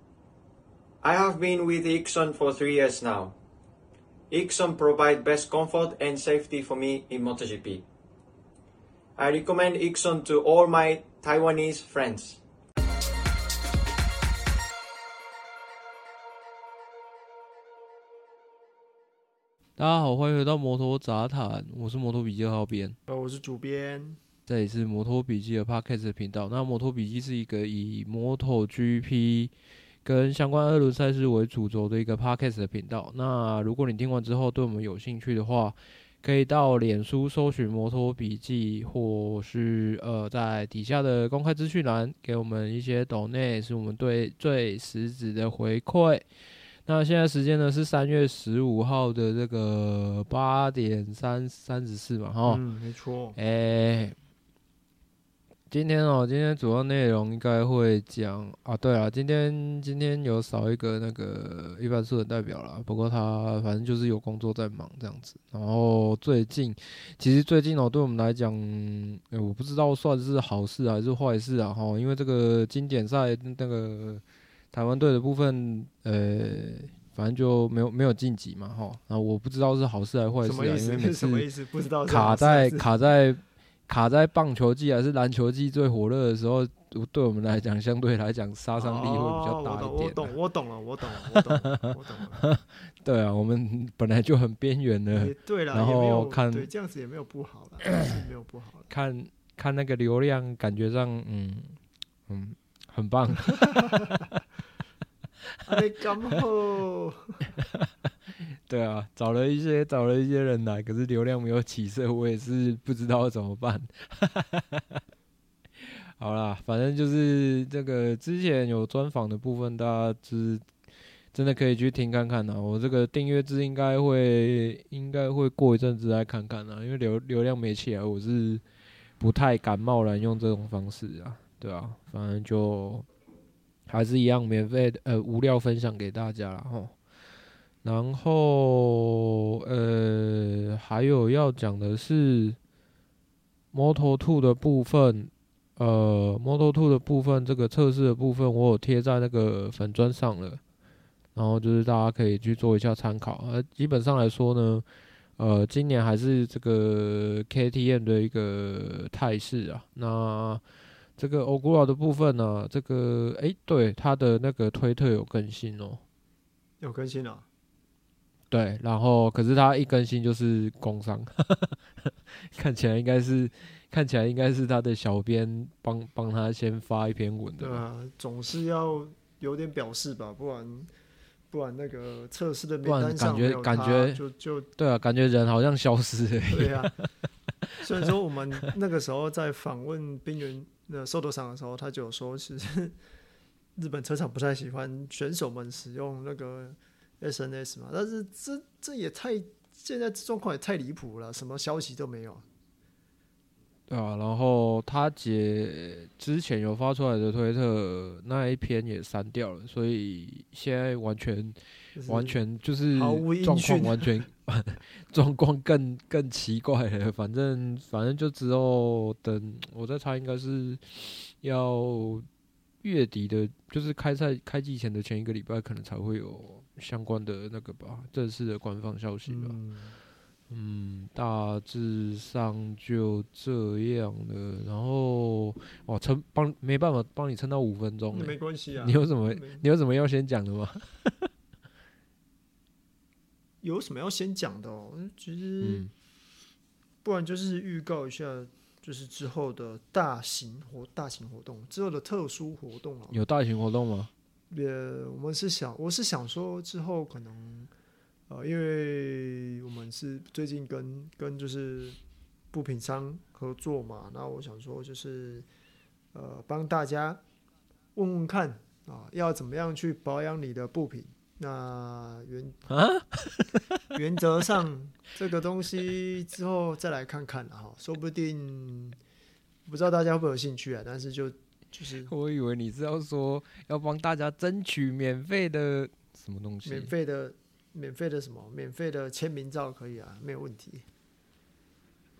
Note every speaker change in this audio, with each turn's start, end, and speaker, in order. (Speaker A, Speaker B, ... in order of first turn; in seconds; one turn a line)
Speaker A: 1.0-3.3
Speaker A: 4.3-7.8
Speaker A: 9.2-12.4
Speaker B: 19.8-23.0
Speaker C: 23.1-24.2
Speaker B: 24.5-29.5
Speaker B: 30.0-46.2
Speaker B: 46.9-52.6
Speaker C: 52.5-53.4
Speaker B: 53.4-54.1
Speaker B: 55.7-81.5
Speaker C: 80.4-82.9
Speaker B: 82.1-90.3
Speaker C: 88.8-92.4
Speaker B: 91.3-96.7
Speaker C: 95.1-98.9
Speaker B: 98.9-101.8
Speaker B: 102.3-104.0
Speaker C: 105.7-107.3
Speaker B: 107.6-107.9
Speaker B: 108.7-115.0
Speaker B: 115.8-120.7
Speaker B: 121.3-128.6
Speaker B: 129.2-133.1
Speaker B: 133.9-136.9
Speaker B: 137.8-142.6
Speaker B: 143.7-150.6
Speaker B: 151.3-154.8
Speaker B: 155.4-160.6
Speaker B: 161.2-166.0
Speaker C: 166.8-167.4
Speaker B: 168.5-177.8
Speaker C: 177.6-180.9
Speaker C: 181.5-184.7
Speaker B: 182.8-184.2
Speaker B: 184.8-187.0
Speaker C: 186.5-186.9
Speaker C: 187.8-193.0
Speaker C: 193.8-202.4
Speaker B: 203.9-222.3
Speaker C: 211.9-212.4
Speaker C: 212.9-214.2
Speaker B: 222.8-229.6
Speaker C: 229.3-229.9
Speaker B: 230.5-241.3
Speaker C: 238.1-239.6
Speaker C: 243.6-245.9
Speaker B: 245.6-245.9
Speaker C: 247.0-253.2
Speaker B: 253.1-254.1
Speaker C: 254.5-257.7
Speaker C: 258.3-262.0
Speaker C: 262.5-265.5
Speaker C: 266.1-267.2
Speaker C: 267.9-272.6
Speaker B: 272.7-273.9
Speaker C: 273.9-279.0
Speaker C: 279.6-282.1
Speaker B: 282.1-286.9
Speaker C: 286.6-290.9